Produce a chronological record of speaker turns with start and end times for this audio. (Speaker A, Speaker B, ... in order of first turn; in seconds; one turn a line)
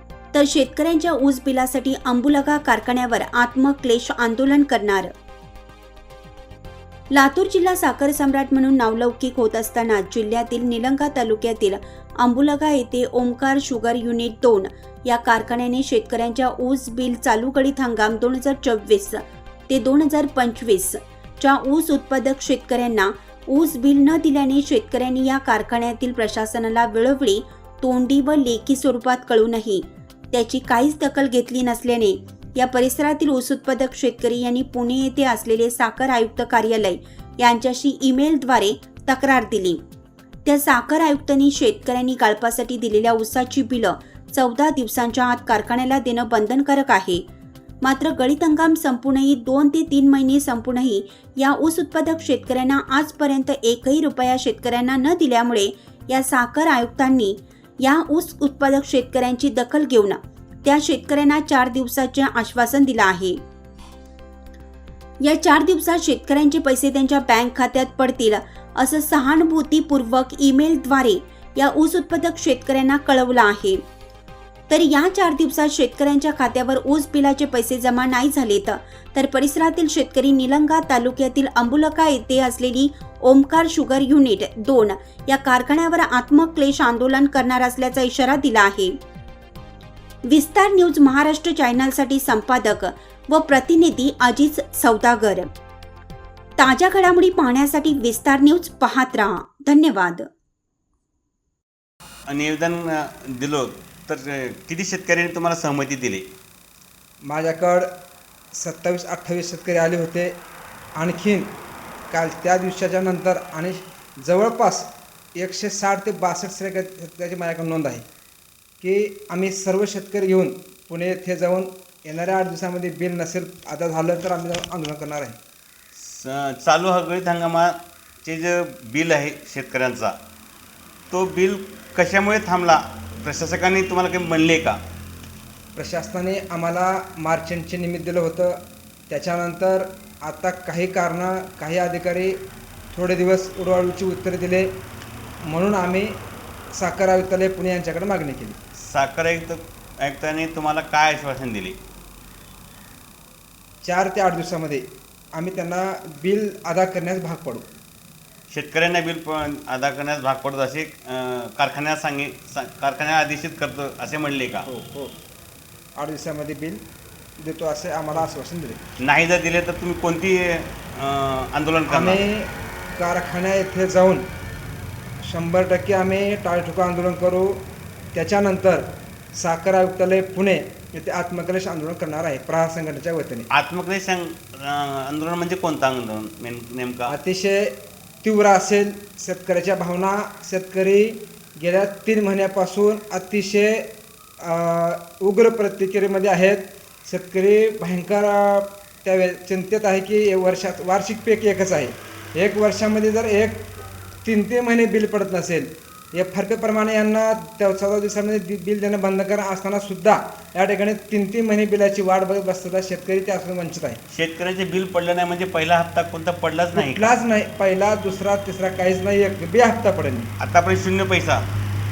Speaker A: 0.3-5.1
Speaker A: 7.1-39.8
Speaker A: 40.5-47.2
Speaker A: 47.8-63.4
Speaker A: 65.2-73.8
Speaker A: 74.7-89.0
Speaker A: 90.3-95.5
Speaker A: 96.6-100.3
Speaker B: 102.3-106.2
Speaker C: 107.2-107.9
Speaker C: 108.5-110.3
Speaker C: 111.0-111.5
Speaker C: 112.1-118.0
Speaker C: 118.8-125.4
Speaker B: 126.0-130.1
Speaker B: 131.1-134.8
Speaker C: 135.8-142.4
Speaker C: 142.9-144.7
Speaker C: 145.4-146.2
Speaker C: 146.7-148.6
Speaker B: 148.8-151.8
Speaker C: 153.8-157.7
Speaker B: 158.5-164.7
Speaker C: 164.7-165.2
Speaker C: 166.0-166.8
Speaker C: 167.4-168.8
Speaker B: 169.0-172.2
Speaker C: 171.9-174.3
Speaker C: 175.2-183.5
Speaker B: 183.5-187.2
Speaker C: 187.1-214.0
Speaker B: 214.1-217.2
Speaker C: 216.8-220.3
Speaker B: 220.4-221.4